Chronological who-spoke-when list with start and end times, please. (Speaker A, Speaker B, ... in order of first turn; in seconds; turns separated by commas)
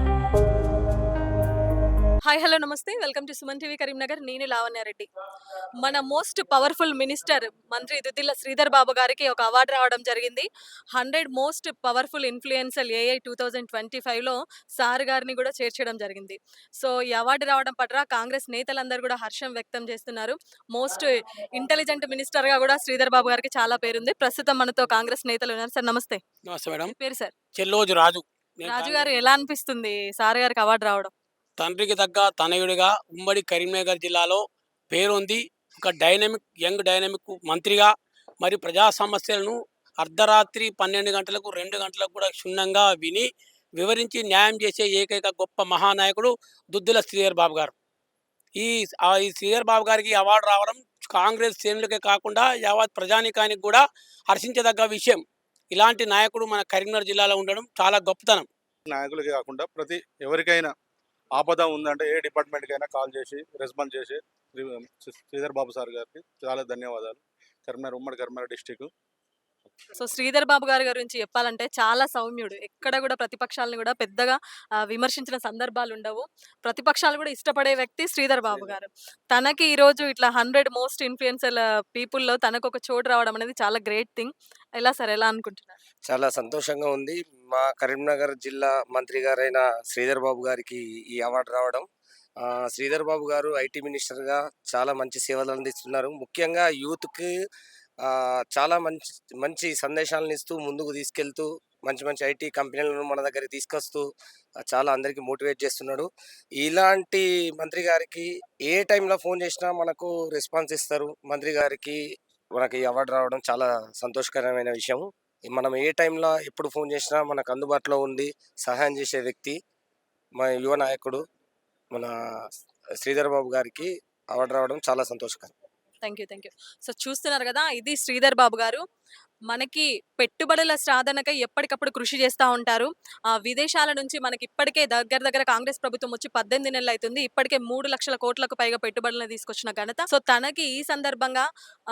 Speaker A: 2.3-5.1, Speaker A: 5.8-26.2, Speaker B: 26.5-26.9, Speaker A: 26.9-27.3, Speaker B: 27.6-29.1, Speaker A: 28.7-31.1, Speaker B: 31.6-47.7, Speaker B: 48.5-58.5, Speaker C: 58.9-60.7, Speaker C: 61.3-68.9, Speaker A: 70.0-85.8, Speaker D: 86.1-91.9, Speaker D: 92.4-97.3, Speaker D: 98.0-104.1, Speaker D: 104.7-106.1, Speaker D: 106.6-112.0, Speaker D: 112.5-119.6, Speaker D: 120.4-121.2, Speaker D: 122.0-122.4, Speaker D: 123.0-125.5, Speaker A: 126.0-128.8, Speaker A: 129.5-141.4